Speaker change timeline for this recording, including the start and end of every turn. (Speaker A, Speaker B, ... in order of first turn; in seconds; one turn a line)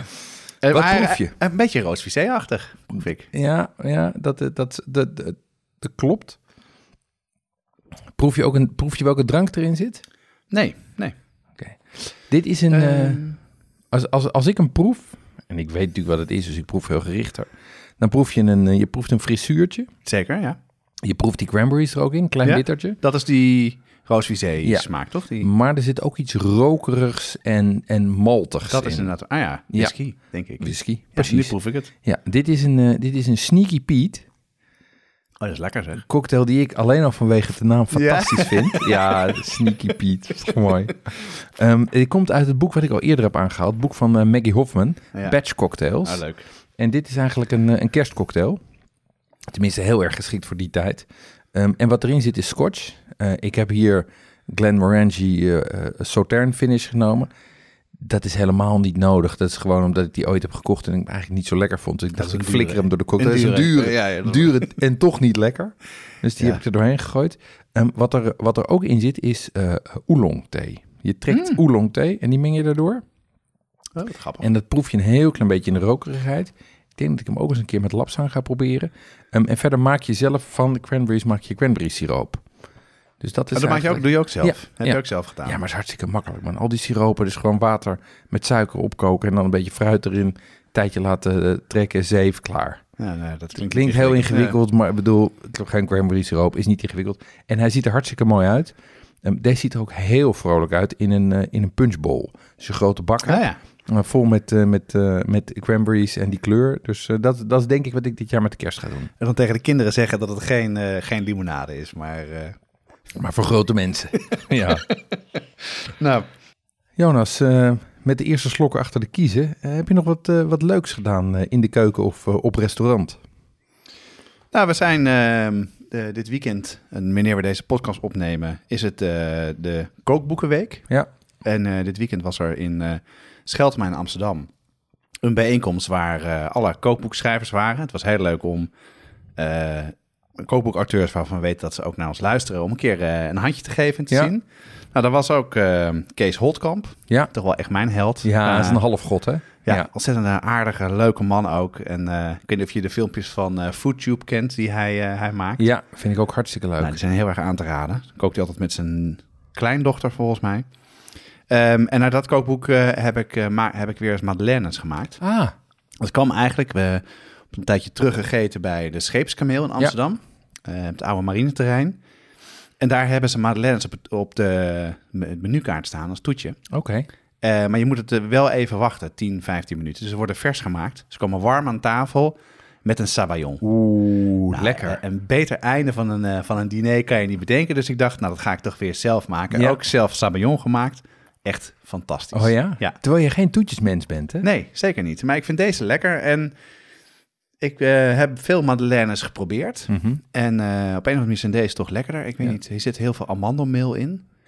Speaker A: 0.6-3.3
Speaker B: 0.7-1.3
Speaker B: 3.3-6.4
Speaker B: 8.2-10.0
Speaker A: 10.5-11.2
Speaker B: 11.6-13.2
Speaker A: 12.7-13.4
Speaker B: 13.9-19.9
Speaker A: 20.0-20.6
Speaker B: 21.0-23.0
Speaker A: 22.4-25.5
Speaker B: 24.6-29.1
Speaker A: 28.6-31.9
Speaker B: 29.7-29.9
Speaker B: 30.6-34.3
Speaker A: 35.4-36.0
Speaker B: 36.1-46.2
Speaker A: 37.9-39.2
Speaker A: 46.0-46.4
Speaker B: 46.8-48.6
Speaker B: 49.5-57.3
Speaker B: 58.0-73.0
Speaker A: 62.2-64.7
Speaker A: 71.3-71.6
Speaker A: 74.0-74.5
Speaker B: 74.4-82.4
Speaker B: 83.2-92.8
Speaker A: 83.5-85.6
Speaker A: 93.0-94.5
Speaker B: 93.7-109.1
Speaker A: 103.2-103.6
Speaker A: 109.2-112.6
Speaker B: 113.1-114.8
Speaker A: 115.8-116.3
Speaker B: 117.0-123.2
Speaker A: 124.5-130.9
Speaker A: 131.4-134.5
Speaker A: 135.2-138.7
Speaker A: 139.3-148.8
Speaker B: 148.2-149.9
Speaker A: 149.6-155.6
Speaker B: 155.6-157.0
Speaker A: 156.8-160.7
Speaker A: 161.5-165.2
Speaker B: 165.2-165.5
Speaker A: 166.0-172.0
Speaker A: 172.8-176.6
Speaker B: 176.7-177.1
Speaker A: 177.4-183.7
Speaker B: 183.6-185.0
Speaker A: 184.5-193.0
Speaker B: 189.5-189.8
Speaker B: 192.3-194.4
Speaker A: 194.4-196.6
Speaker A: 197.6-204.2
Speaker B: 199.9-200.2